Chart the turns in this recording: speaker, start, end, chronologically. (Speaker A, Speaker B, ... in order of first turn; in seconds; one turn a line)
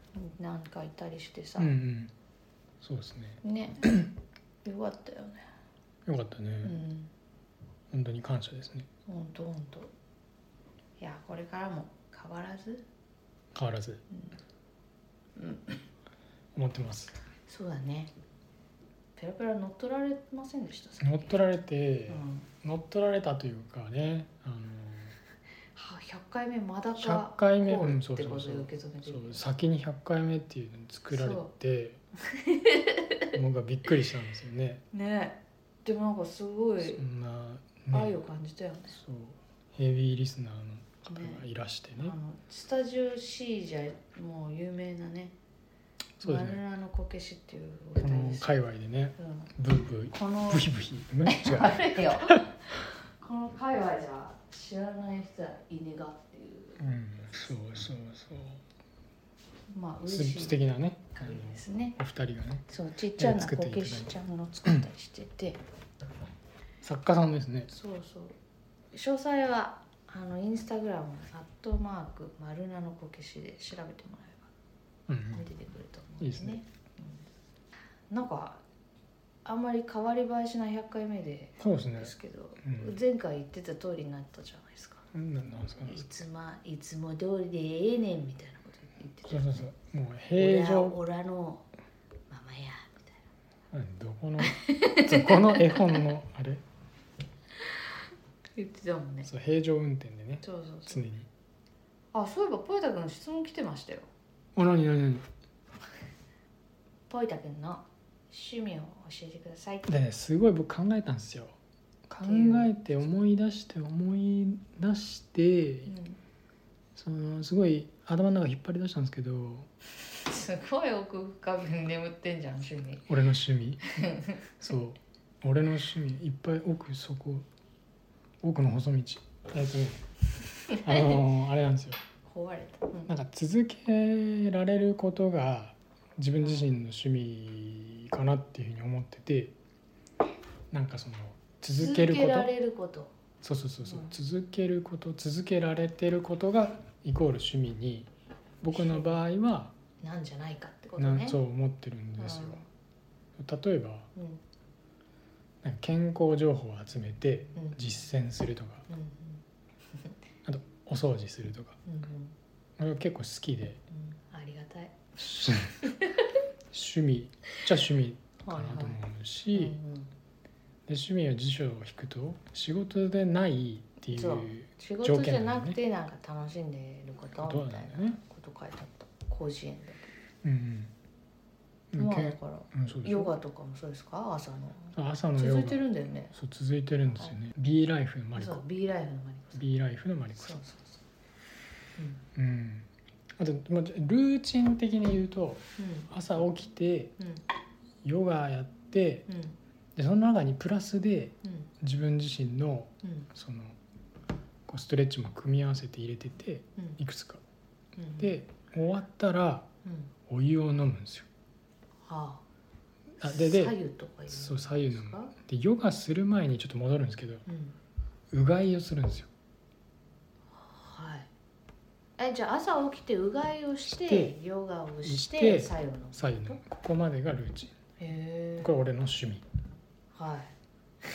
Speaker A: 0.1-1.7
Speaker B: 1.6-2.1
Speaker B: 2.8-4.1
Speaker A: 3.4-4.1
Speaker A: 4.6-5.5
Speaker B: 6.0-6.8
Speaker A: 6.6-7.1
Speaker B: 7.9-8.9
Speaker A: 9.1-9.9
Speaker A: 11.0-12.8
Speaker B: 13.5-14.0
Speaker A: 14.1-14.4
Speaker A: 15.3-15.8
Speaker B: 16.5-17.1
Speaker A: 17.4-18.1
Speaker A: 19.1-21.3
Speaker B: 21.0-25.2
Speaker A: 22.1-22.5
Speaker A: 25.7-29.4
Speaker B: 27.0-32.0
Speaker A: 31.1-31.5
Speaker A: 32.2-33.3
Speaker B: 33.3-34.8
Speaker A: 34.9-37.0
Speaker B: 36.8-38.1
Speaker A: 37.9-39.0
Speaker B: 38.9-42.1
Speaker A: 41.1-41.4
Speaker A: 42.0-45.4
Speaker B: 46.2-46.6
Speaker A: 46.2-48.5
Speaker B: 48.0-52.4
Speaker A: 49.2-49.5
Speaker A: 50.1-50.7
Speaker A: 51.2-56.8
Speaker B: 56.8-58.6
Speaker A: 59.7-60.6
Speaker B: 60.1-62.6
Speaker A: 61.1-62.0
Speaker A: 62.7-65.6
Speaker B: 63.1-64.1
Speaker B: 66.8-67.7
Speaker A: 67.7-68.3
Speaker A: 68.9-74.5
Speaker B: 75.1-75.5
Speaker A: 75.3-77.3
Speaker B: 76.2-76.6
Speaker A: 78.1-78.6
Speaker A: 79.4-85.1
Speaker B: 81.6-82.9
Speaker B: 85.1-86.0
Speaker A: 85.8-89.6
Speaker B: 89.2-91.0
Speaker A: 90.3-91.7
Speaker A: 92.3-93.2
Speaker B: 93.7-96.6
Speaker A: 94.5-95.7
Speaker A: 98.5-99.3
Speaker B: 99.2-101.3
Speaker A: 100.4-101.0
Speaker A: 102.1-104.1
Speaker B: 104.5-105.2
Speaker A: 107.1-109.9
Speaker B: 109.9-111.5
Speaker B: 112.1-116.0
Speaker A: 112.2-112.7
Speaker A: 115.8-116.2
Speaker B: 117.0-119.7
Speaker A: 120.1-123.1
Speaker B: 123.1-127.5
Speaker A: 123.9-124.5
Speaker B: 128.4-130.0
Speaker B: 130.8-132.0
Speaker A: 132.2-133.1
Speaker B: 133.1-139.5
Speaker A: 136.4-136.7
Speaker B: 140.7-142.5
Speaker A: 141.8-143.1
Speaker B: 143.4-148.1
Speaker A: 143.8-144.1
Speaker B: 148.6-149.7
Speaker A: 148.7-149.2
Speaker A: 150.0-151.4
Speaker B: 151.0-152.6
Speaker A: 152.2-152.7
Speaker B: 153.4-154.1
Speaker A: 154.1-154.4
Speaker B: 155.6-158.9
Speaker A: 157.5-157.8
Speaker A: 158.9-159.4
Speaker B: 160.4-161.8
Speaker A: 161.8-162.3
Speaker B: 162.8-163.8
Speaker A: 163.9-166.3
Speaker B: 165.2-165.8
Speaker B: 166.7-169.8
Speaker A: 168.4-169.0
Speaker A: 169.5-170.1
Speaker B: 170.9-175.8
Speaker A: 174.1-180.1
Speaker B: 177.4-178.2
Speaker B: 180.4-180.9
Speaker B: 181.9-183.3
Speaker A: 181.9-186.3
Speaker B: 184.9-188.6
Speaker A: 188.3-189.7
Speaker B: 189.5-190.6
Speaker A: 190.3-191.0
Speaker A: 192.0-192.2
Speaker B: 192.3-197.1
Speaker A: 195.8-196.1
Speaker A: 197.2-197.4
Speaker B: 198.0-199.3
Speaker A: 199.3-199.6
Speaker B: 199.9-203.8
Speaker A: 201.4-201.7
Speaker A: 203.0-203.3
Speaker B: 204.7-207.4
Speaker A: 207.9-208.3
Speaker B: 208.2-209.7
Speaker A: 209.8-210.1
Speaker B: 210.3-211.3
Speaker A: 212.0-212.4
Speaker B: 213.2-213.8
Speaker A: 213.2-215.3
Speaker B: 214.3-217.4
Speaker A: 217.4-217.8
Speaker B: 218.3-219.3
Speaker A: 220.5-221.3
Speaker A: 222.2-226.6
Speaker B: 223.9-224.3
Speaker B: 225.0-227.7
Speaker A: 228.0-228.8
Speaker B: 228.6-229.4
Speaker A: 230.1-230.5